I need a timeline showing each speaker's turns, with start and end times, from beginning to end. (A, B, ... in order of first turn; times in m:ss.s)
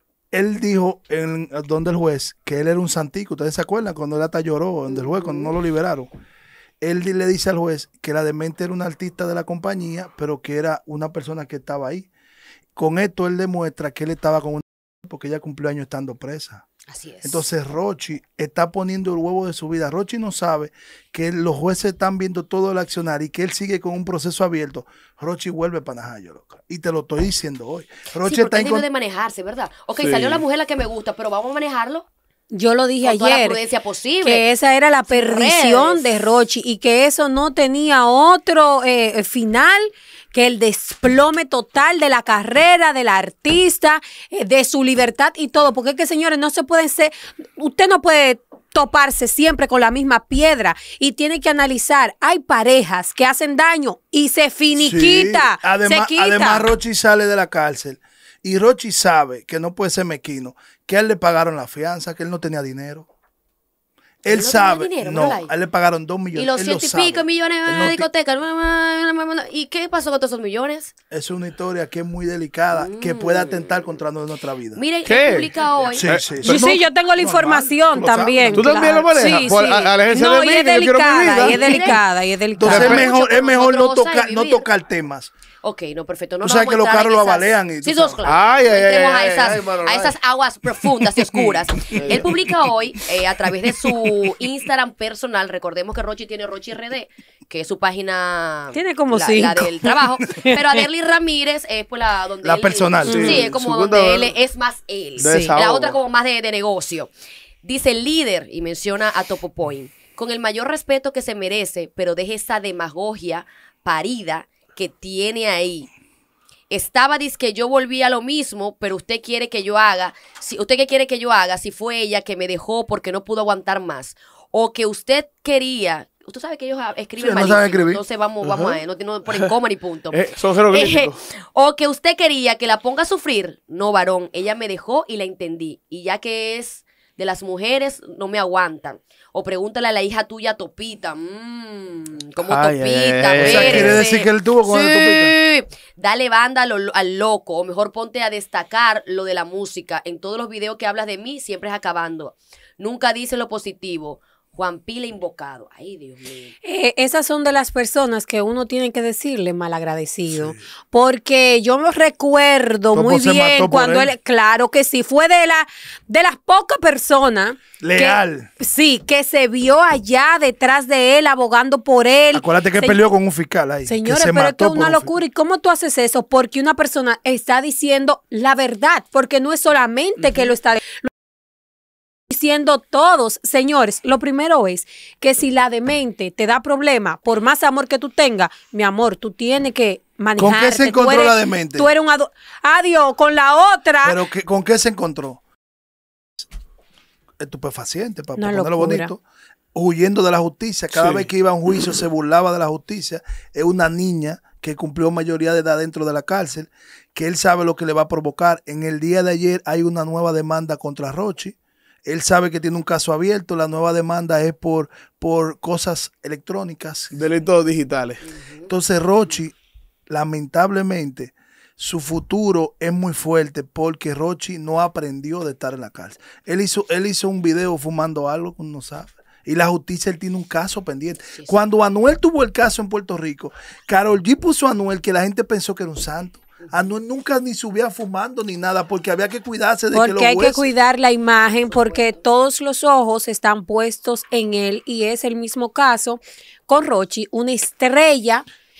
0:00.3-0:06.1 A
0:04.9-0:05.5 B
0:06.8-0:12.1 A
0:12.8-0:16.6 A
0:16.9-0:17.4 B
0:17.2-0:28.9 A
0:28.2-0:32.1 B
0:30.0-0:30.4 C
0:32.5-0:33.6 D
0:33.0-0:34.4 B
0:34.2-0:56.7 D
0:35.1-0:36.1 B
0:54.7-1:03.1 A
1:04.2-1:08.1 A
1:04.3-1:05.5 B
1:06.3-1:10.9 B
1:11.1-1:14.8 A
1:12.7-1:13.8 B
1:14.8-1:16.0 B
1:15.0-1:16.7 C
1:15.9-1:19.2 A
1:16.4-1:23.0 D
1:18.5-1:21.8 C
1:21.3-1:22.0 B
1:22.6-1:25.3 A
1:22.6-1:23.1 C
1:22.7-1:24.7 B
1:25.6-1:47.1 B
1:26.4-1:28.2 A
1:28.2-1:30.2 C
1:31.9-1:32.4 C
1:38.7-1:40.8 D
1:42.4-1:43.5 A
1:43.1-1:44.4 C
1:43.1-1:43.4 D
1:45.2-1:46.0 C
1:45.2-1:45.5 D
1:47.6-1:55.9 B
1:56.7-2:36.5 B
2:07.2-2:08.0 A
2:08.4-2:08.8 C
2:10.1-2:11.2 C
2:22.4-2:24.0 C
2:23.4-2:25.4 A
2:36.6-2:53.0 D
2:40.3-2:40.6 A
2:42.9-2:44.1 A
2:47.8-2:48.5 A
2:52.3-2:55.1 A
2:53.9-3:01.1 D
3:02.3-3:14.2 D
3:10.4-3:11.9 A
3:14.0-3:15.4 A
3:17.4-3:19.2 A
3:18.4-3:19.1 D
3:19.7-3:37.1 A
3:20.9-3:21.3 C
3:37.1-3:38.2 C
3:38.2-3:38.7 B
3:38.7-3:39.5 A
3:40.1-4:00.7 A
3:51.3-3:51.6 B
3:59.9-4:08.4 D
4:01.7-4:02.2 B